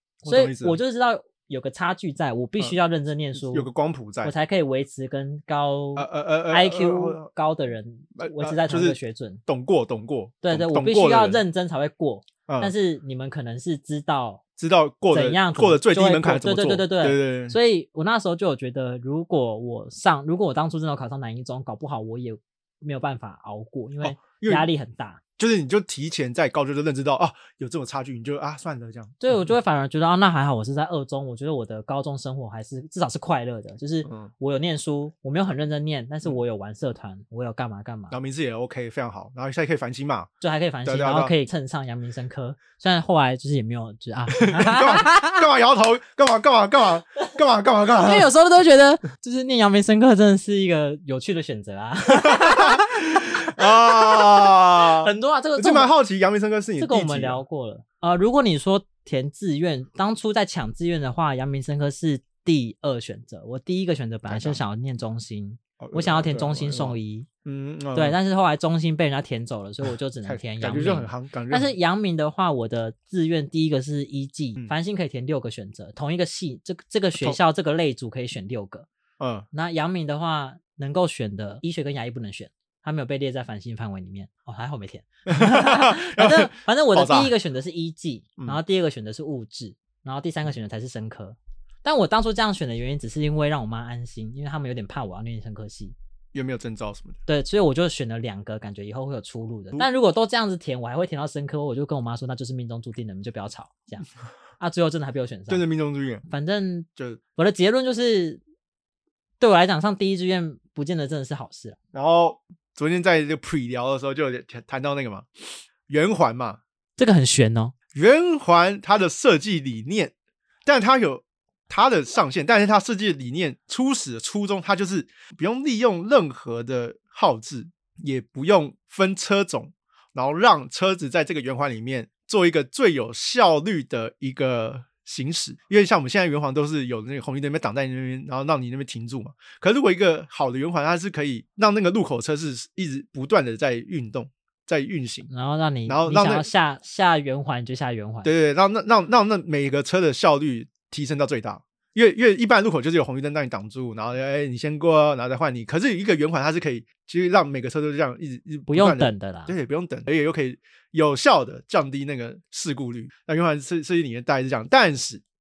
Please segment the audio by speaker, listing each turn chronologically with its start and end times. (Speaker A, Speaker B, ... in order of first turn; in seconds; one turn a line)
Speaker A: 0.2-0.8
Speaker B: 0.2-3.7
Speaker A: 3.3-4.3
Speaker B: 4.2-9.4
Speaker A: 6.0-7.3
Speaker A: 8.2-11.4
Speaker B: 10.4-14.4
Speaker A: 12.5-12.7
Speaker A: 14.6-17.6
Speaker B: 15.1-25.2
Speaker A: 24.0-24.7
Speaker A: 25.4-29.4
Speaker B: 29.2-38.2
Speaker A: 34.1-34.3
Speaker A: 38.1-40.3
Speaker B: 40.4-45.4
Speaker A: 40.8-41.3
Speaker A: 44.4-48.3
Speaker B: 47.9-55.9
Speaker A: 52.1-57.4
Speaker B: 56.8-67.3
Speaker A: 64.3-64.6
Speaker A: 65.8-68.2
Speaker B: 67.9-78.9
Speaker A: 70.2-71.7
Speaker A: 79.2-79.5
Speaker B: 79.5-96.0
Speaker A: 85.3-87.3
Speaker A: 96.3-97.2
Speaker B: 97.3-104.0
Speaker B: 104.6-105.6
Speaker A: 105.5-106.2
Speaker B: 106.3-108.4
Speaker B: 109.4-111.8
Speaker A: 111.9-115.3
Speaker A: 115.9-116.6
Speaker B: 117.0-117.7
Speaker A: 117.9-120.1
Speaker A: 120.7-145.3
Speaker B: 145.3-148.3
Speaker A: 145.9-146.5
Speaker A: 148.2-165.2
Speaker B: 158.7-159.5